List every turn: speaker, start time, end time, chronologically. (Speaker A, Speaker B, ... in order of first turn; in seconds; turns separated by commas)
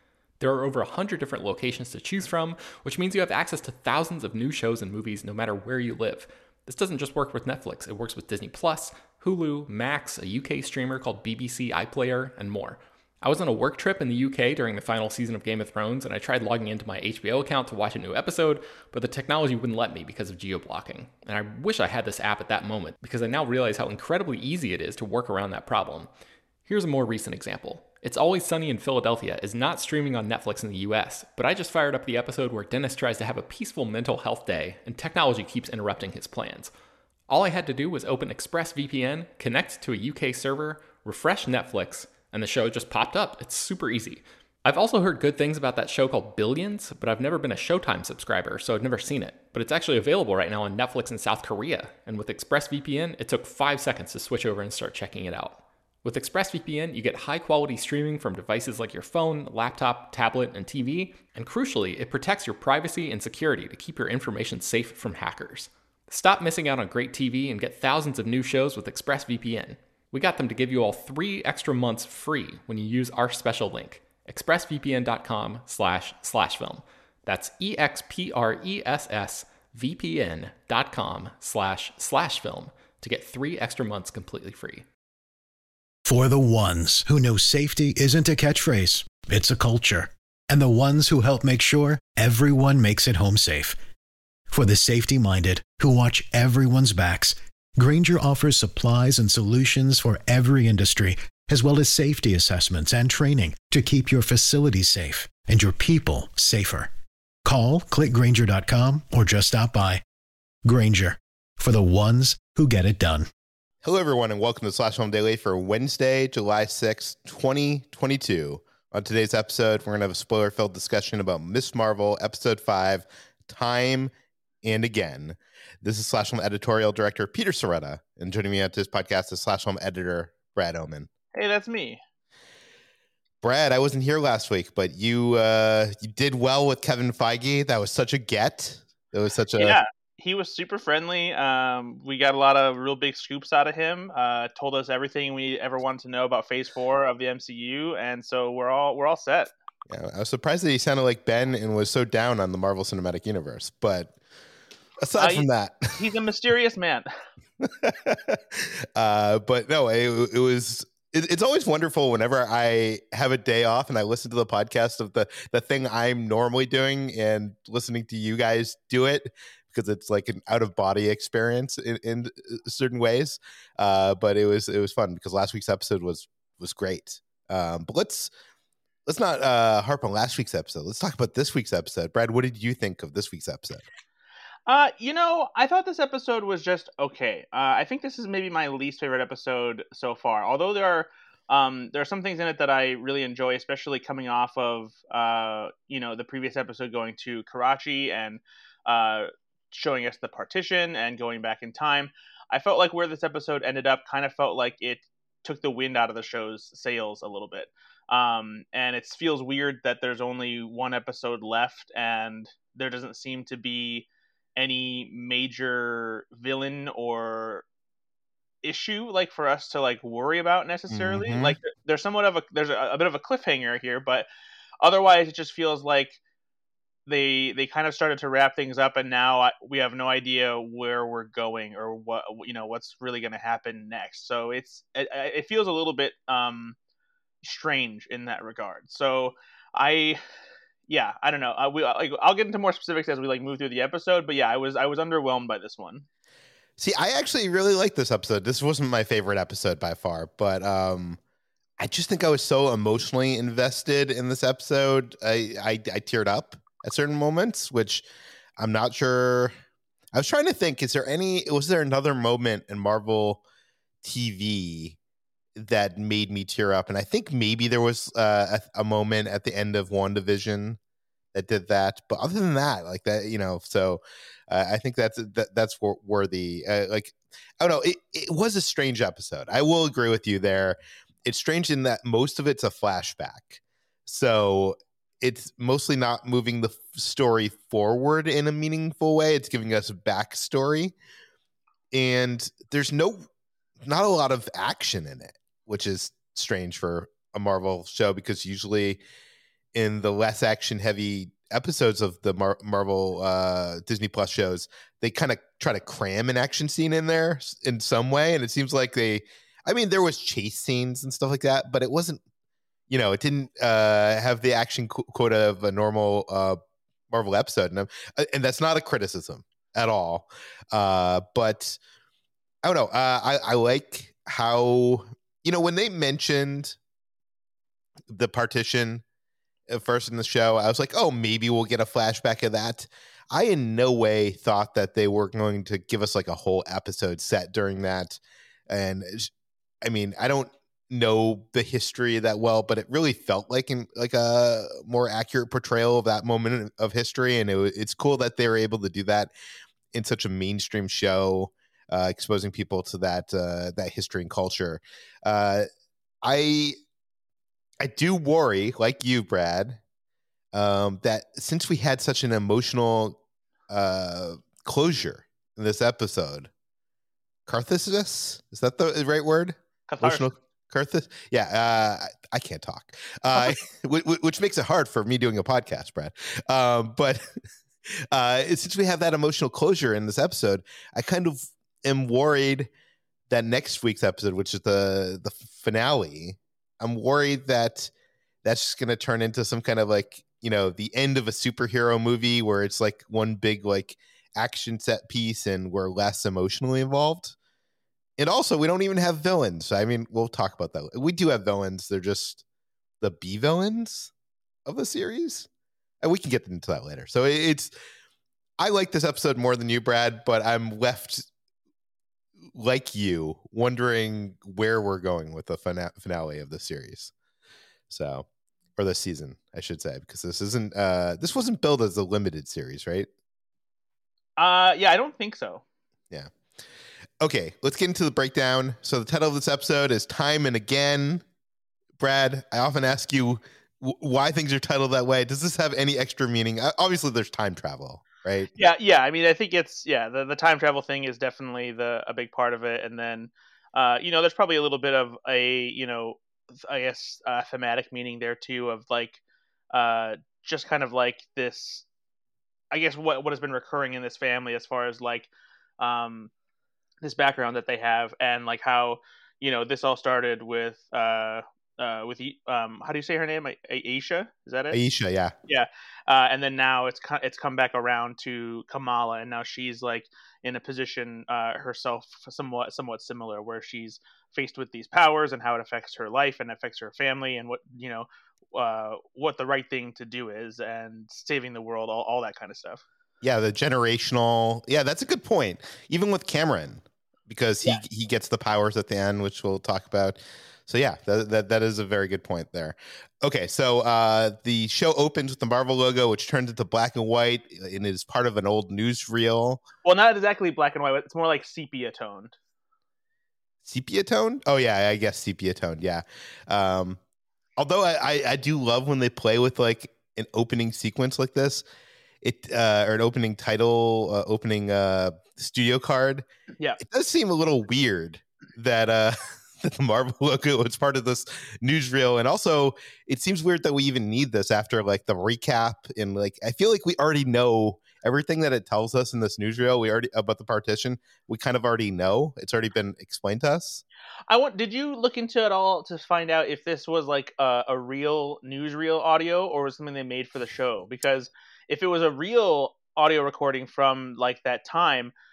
Speaker A: 0.4-26.1, Speaker A: 26.6-36.7, Speaker A: 37.3-84.8, Speaker B: 86.1-93.8, Speaker B: 94.5-106.9, Speaker B: 107.4-110.0, Speaker B: 110.6-113.3, Speaker C: 113.8-124.1, Speaker C: 124.6-131.1, Speaker D: 131.3-132.0, Speaker C: 133.4-139.8, Speaker D: 139.6-149.5, Speaker C: 149.9-154.1, Speaker C: 155.0-156.0, Speaker D: 155.2-157.1, Speaker C: 157.6-178.3, Speaker C: 179.1-183.8, Speaker D: 184.7-217.6, Speaker D: 218.6-224.3, Speaker C: 220.9-221.6, Speaker D: 224.8-226.2, Speaker D: 227.1-236.8, Speaker D: 237.4-240.2, Speaker D: 240.9-246.1, Speaker C: 246.8-251.2, Speaker C: 251.8-258.1, Speaker C: 258.6-259.5, Speaker C: 260.1-263.4, Speaker C: 264.0-265.0, Speaker C: 265.6-270.8, Speaker C: 271.3-290.9, Speaker C: 291.9-293.3, Speaker C: 293.8-299.0, Speaker C: 299.7-312.2, Speaker C: 312.9-316.6, Speaker C: 317.1-321.8, Speaker C: 322.6-326.8, Speaker C: 328.1-329.0, Speaker C: 329.7-339.3, Speaker C: 339.8-349.3, Speaker C: 349.9-355.7, Speaker C: 356.2-356.8, Speaker C: 357.8-359.8, Speaker C: 360.5-366.5, Speaker C: 367.5-377.2, Speaker D: 369.9-370.3, Speaker C: 378.1-382.7, Speaker C: 383.3-387.9, Speaker C: 388.4-397.4, Speaker C: 398.2-402.4, Speaker C: 403.0-404.1, Speaker C: 404.7-405.5, Speaker C: 406.0-407.7, Speaker C: 408.6-411.3, Speaker C: 412.5-417.1, Speaker C: 417.9-418.2, Speaker C: 418.8-423.1, Speaker D: 424.4-425.6, Speaker C: 427.2-431.2, Speaker C: 432.0-438.5, Speaker D: 438.6-451.9, Speaker D: 452.7-456.3, Speaker D: 457.0-464.8, Speaker C: 464.7-465.3, Speaker D: 465.5-482.8, Speaker C: 483.2-499.6, Speaker D: 499.8-502.3, Speaker C: 503.6-507.0, Speaker C: 507.6-511.6, Speaker C: 512.2-516.2, Speaker C: 516.8-533.8, Speaker D: 534.3-545.1